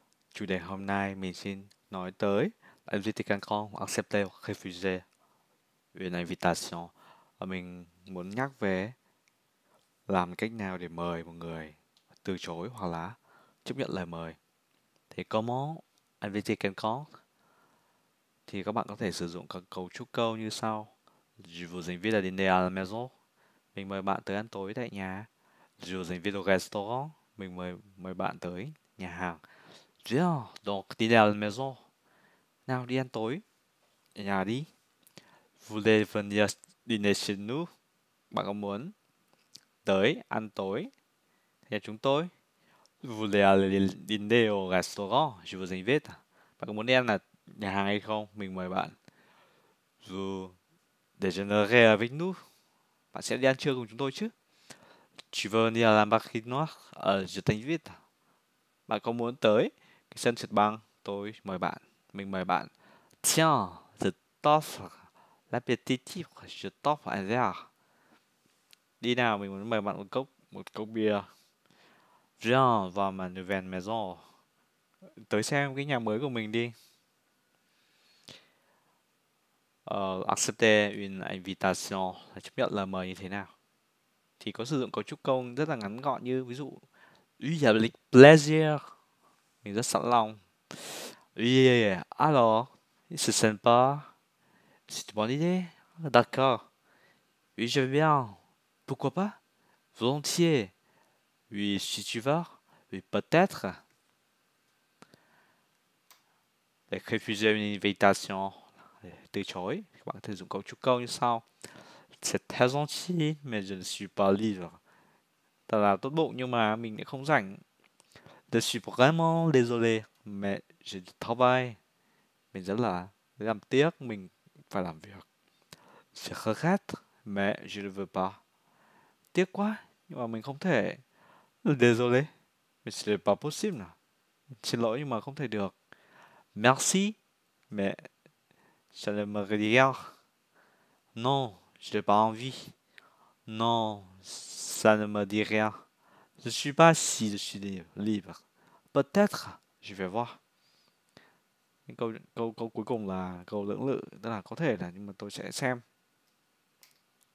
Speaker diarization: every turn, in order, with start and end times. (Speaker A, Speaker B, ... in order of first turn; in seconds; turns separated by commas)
Speaker A: 0.3-5.0, Speaker A: 5.9-8.9, Speaker A: 10.1-14.4, Speaker A: 15.1-17.1, Speaker A: 18.5-23.1, Speaker A: 23.7-25.3, Speaker A: 25.8-29.4, Speaker A: 30.0-31.8, Speaker A: 32.7-33.4, Speaker A: 34.1-34.7, Speaker A: 35.6-37.7, Speaker A: 38.3-38.9, Speaker A: 39.8-40.9, Speaker A: 41.7-42.3, Speaker A: 43.0-48.9, Speaker A: 50.0-50.5, Speaker A: 51.2-52.4, Speaker A: 53.1-54.3, Speaker A: 55.3-58.0, Speaker A: 58.9-62.7, Speaker A: 63.2-67.7, Speaker A: 69.0-71.3, Speaker A: 72.4-74.2, Speaker A: 75.0-76.7, Speaker A: 79.8-83.5, Speaker A: 84.4-86.8, Speaker A: 87.4-88.9, Speaker A: 89.6-94.1, Speaker A: 94.9-96.6, Speaker A: 97.6-99.4, Speaker A: 100.0-100.7, Speaker A: 101.5-103.8, Speaker A: 106.9-114.8, Speaker A: 115.7-117.6, Speaker A: 118.5-121.8, Speaker A: 122.5-125.2, Speaker A: 126.1-128.4, Speaker A: 129.3-131.0, Speaker A: 131.6-132.3, Speaker A: 132.8-133.9, Speaker A: 134.5-135.7, Speaker A: 136.5-137.2, Speaker A: 137.7-138.1, Speaker A: 138.9-140.1, Speaker A: 141.2-142.7, Speaker A: 143.5-145.8, Speaker A: 146.4-148.4, Speaker A: 148.9-150.4, Speaker A: 151.9-155.8